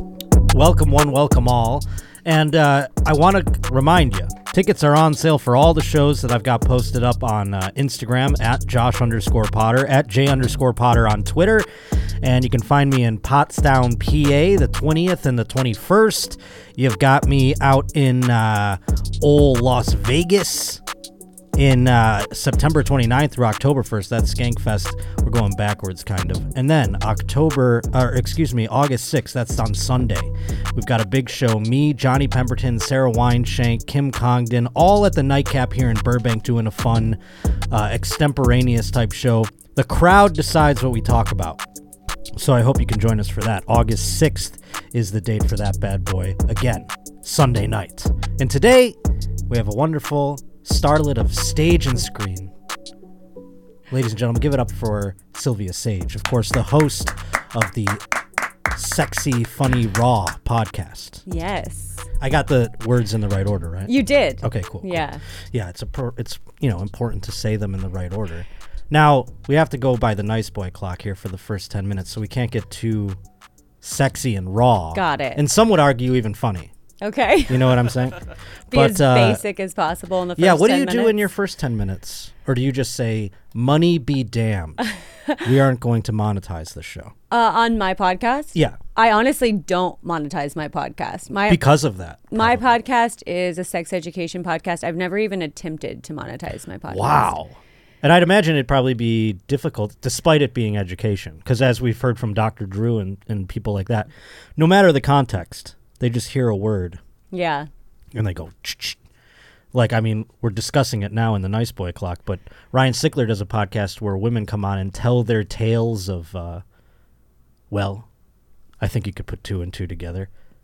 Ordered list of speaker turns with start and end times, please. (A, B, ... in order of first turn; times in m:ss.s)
0:00.5-0:11.7 A
0:12.2-0:20.8 A
0:21.6-0:37.2 A
0:37.7-0:41.6 A
0:42.4-0:52.5 A
0:53.9-0:58.0 A
0:58.7-1:01.2 A
1:01.3-1:02.1 B
1:02.2-1:13.2 A
1:03.9-1:05.2 B
1:13.8-1:16.7 A
1:14.9-1:15.4 B
1:17.0-1:17.9 B
1:17.5-1:19.4 A
1:18.7-1:21.3 B
1:20.4-1:24.8 A
1:25.4-1:27.1 A
1:27.3-1:31.6 B
1:31.5-1:32.8 A
1:32.3-1:37.4 B
1:36.9-1:47.0 A
1:47.3-1:47.7 B
1:48.1-1:49.0 A
1:49.7-1:56.6 A
1:57.7-1:58.1 A
1:58.8-2:00.3 A